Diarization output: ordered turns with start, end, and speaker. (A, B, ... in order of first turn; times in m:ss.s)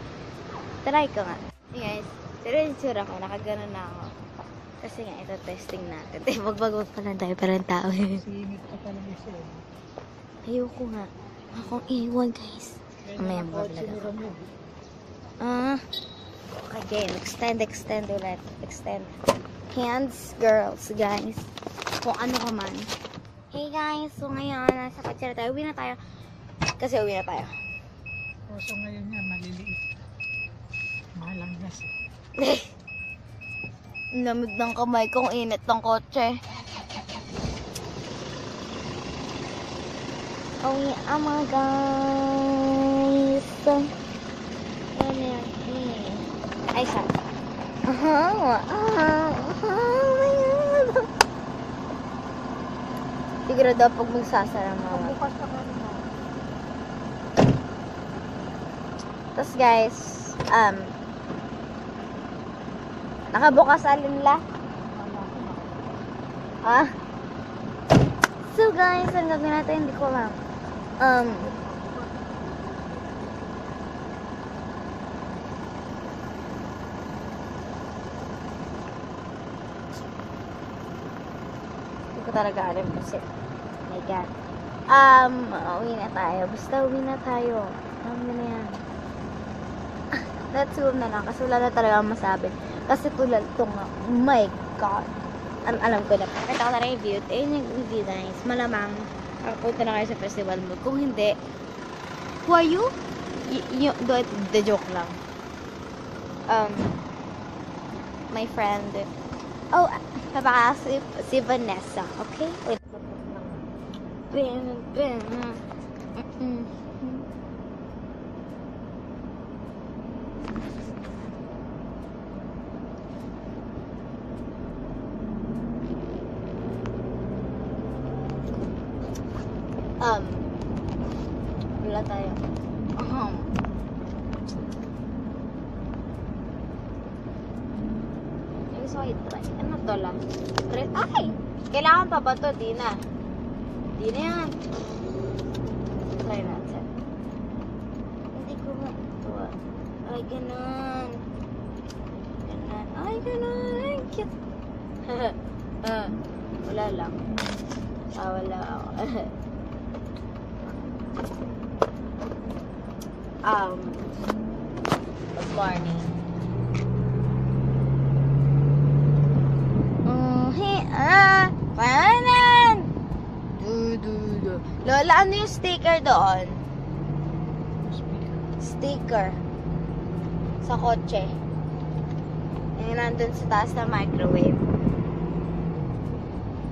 0:00.8-0:04.1 A
0:04.8-0:08.2 A
0:08.2-0:09.6 B
0:10.4-0:14.1 A
0:13.0-0:14.5 B
0:15.4-0:15.8 A
0:16.5-0:19.1 A
0:19.7-0:21.5 A
0:22.0-0:22.9 A
0:23.5-0:26.0 A
0:26.8-0:27.5 A
0:28.5-0:29.8 B
0:31.2-0:31.9 B
0:32.4-0:32.7 A
0:34.1-0:36.3 A
0:40.6-0:43.9 A
0:44.9-0:47.1 A
0:47.9-0:51.0 A
0:53.5-0:55.2 A
0:54.8-0:56.1 B
0:59.3-1:00.9 A
1:03.3-1:04.4 A
1:04.9-1:05.8 B
1:06.6-1:06.9 A
1:08.5-1:10.4 A
1:11.0-1:11.5 A
1:11.3-1:13.2 B
1:22.1-1:23.2 A
1:23.9-1:24.3 A
1:24.9-1:28.8 A
1:30.5-1:35.1 A
1:35.6-1:41.3 A
1:42.4-1:42.9 A
1:43.5-1:45.2 A
1:46.5-1:47.0 A
1:48.3-1:49.1 A
1:49.7-1:53.0 A
1:53.0-1:53.6 B
1:54.3-1:55.6 A
1:56.2-1:57.2 A
2:10.0-2:10.5 A
2:11.7-2:12.4 A
2:13.0-2:13.5 A
2:18.7-2:23.0 A
2:24.0-2:24.6 A
2:26.2-2:26.9 A
2:28.3-2:29.6 A
2:30.1-2:31.2 A
2:32.4-2:34.3 A
2:35.0-2:37.2 A
2:38.1-2:39.3 A
2:43.4-2:44.0 A
2:45.3-2:46.1 A
2:50.0-2:52.8 A
2:53.6-2:56.6 A
2:57.8-2:58.4 B
2:58.6-2:59.4 A
3:00.6-3:01.3 A
3:02.8-3:04.6 A